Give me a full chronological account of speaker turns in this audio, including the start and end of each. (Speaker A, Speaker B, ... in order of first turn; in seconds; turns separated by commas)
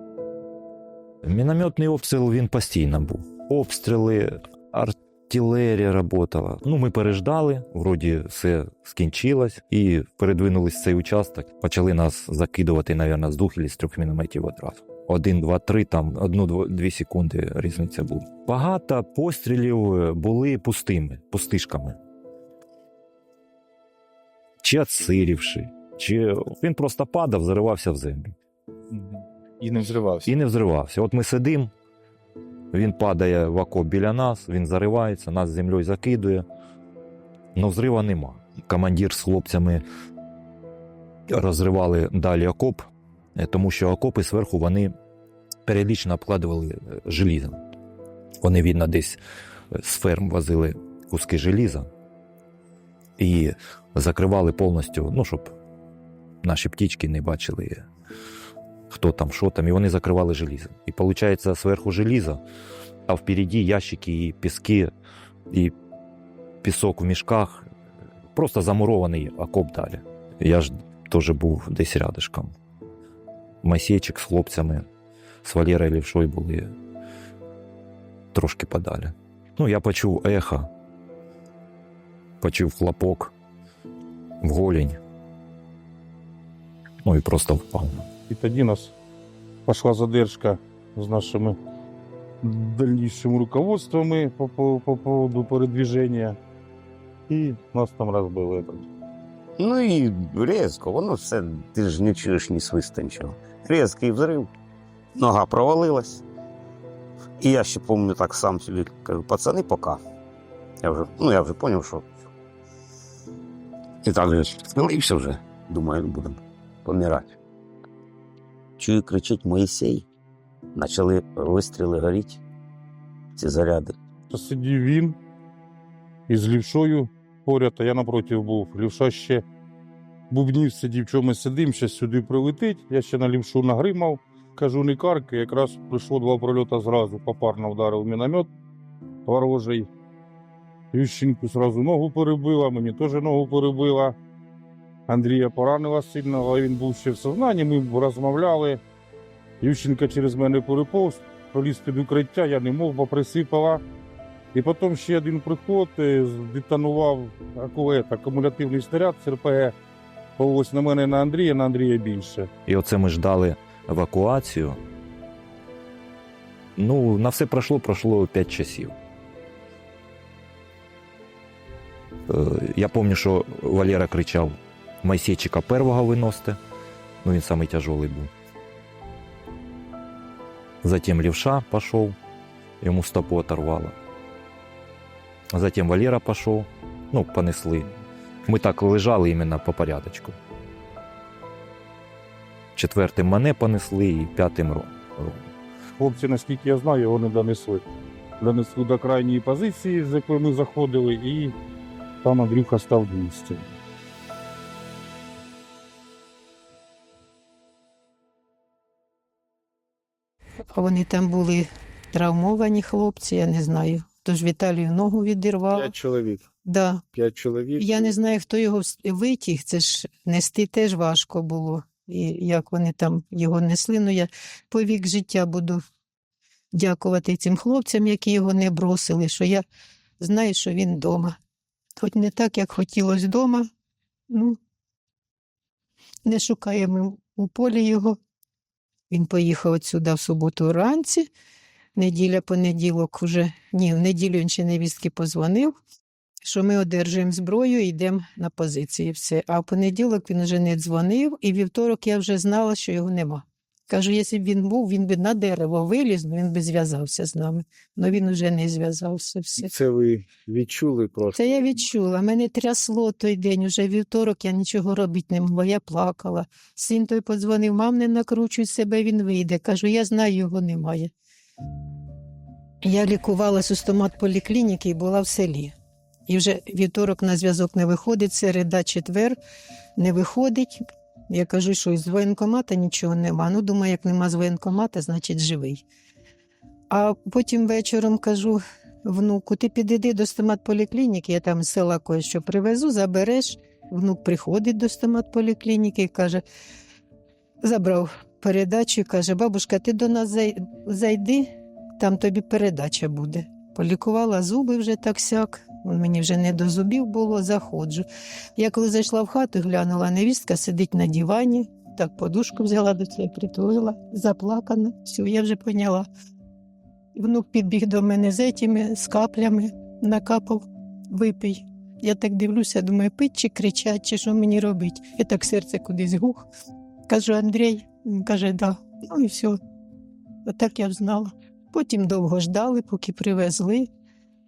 Speaker A: 1.2-22.0, Speaker A: 24.6-28.4, Speaker B: 28.9-30.3, Speaker A: 30.2-31.7, Speaker A: 32.7-36.5, Speaker A: 37.5-39.8, Speaker A: 41.3-44.9, Speaker A: 45.7-47.6, Speaker A: 48.4-49.2, Speaker A: 49.7-51.9, Speaker A: 53.2-55.5, Speaker A: 56.4-57.9, Speaker A: 58.9-62.4, Speaker A: 63.1-64.9, Speaker A: 65.5-65.8, Speaker A: 66.6-67.7, Speaker A: 68.3-72.5, Speaker A: 73.6-74.9, Speaker A: 75.4-76.8, Speaker A: 78.3-80.7, Speaker A: 82.4-83.3, Speaker A: 84.4-85.0, Speaker A: 87.0-88.1, Speaker C: 88.3-89.0, Speaker C: 89.7-91.6, Speaker C: 92.4-96.4, Speaker C: 97.3-98.9, Speaker D: 99.6-104.5, Speaker D: 105.2-106.2, Speaker D: 107.4-110.0, Speaker D: 110.8-112.1, Speaker D: 114.0-117.4, Speaker D: 118.8-120.1, Speaker D: 120.8-122.4, Speaker D: 123.4-124.0, Speaker C: 124.3-125.2, Speaker C: 126.3-129.4, Speaker C: 130.3-138.5, Speaker C: 139.2-139.9, Speaker C: 140.9-144.2, Speaker C: 145.1-148.8, Speaker C: 149.6-153.8, Speaker C: 154.5-159.7, Speaker C: 160.4-162.5, Speaker A: 162.7-164.8, Speaker A: 166.8-169.0, Speaker A: 172.3-176.6, Speaker A: 177.2-178.3, Speaker A: 180.8-182.2, Speaker A: 182.8-184.0, Speaker A: 185.5-187.9, Speaker A: 188.5-190.4, Speaker A: 192.8-195.4, Speaker C: 196.0-197.8, Speaker C: 198.4-201.5, Speaker C: 202.2-203.7, Speaker E: 210.7-215.9, Speaker B: 215.7-216.5, Speaker E: 216.6-217.0, Speaker B: 217.2-218.1, Speaker E: 217.8-225.8, Speaker E: 226.7-229.6, Speaker E: 230.2-231.4, Speaker E: 232.0-233.7, Speaker E: 234.3-234.6, Speaker E: 236.3-238.2, Speaker E: 239.1-241.3, Speaker E: 242.0-245.7, Speaker E: 246.4-259.7, Speaker B: 259.6-261.9, Speaker E: 261.3-271.1, Speaker E: 272.8-275.7, Speaker E: 276.3-279.4, Speaker E: 280.0-285.8, Speaker E: 286.9-296.4, Speaker E: 297.6-308.1, Speaker E: 308.6-316.1, Speaker E: 317.1-326.5, Speaker E: 327.1-329.6, Speaker E: 330.5-333.9